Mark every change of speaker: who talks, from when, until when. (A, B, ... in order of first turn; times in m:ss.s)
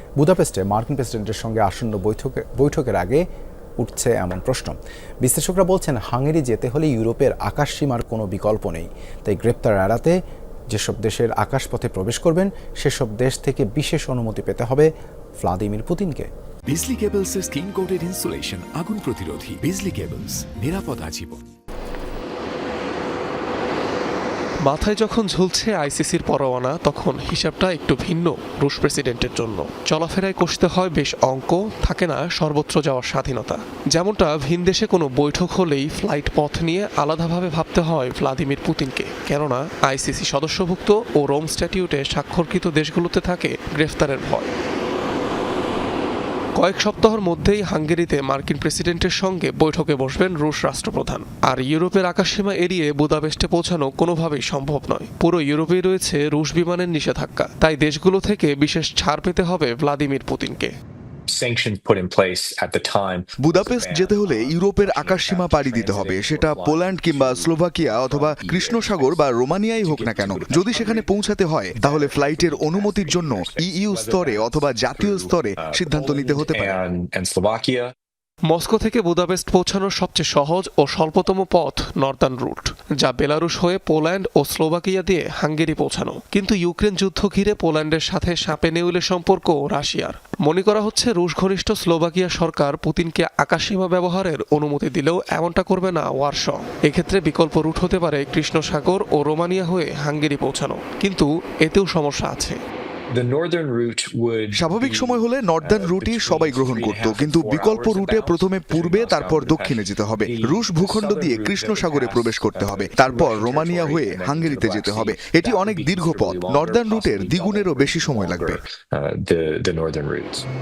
0:00.2-0:03.2 A
0:03.8-0:10.2 A
0:10.7-0:16.3 A
0:16.7-0:21.4 B
0:24.6-0:44.5 C
0:46.6-1:00.7 C
1:01.3-1:09.3 D
1:03.4-1:16.8 E
1:09.8-1:11.1 D
1:11.7-1:17.9 D
1:18.5-1:42.6 C
1:43.1-2:00.4 D
1:44.5-1:58.6 E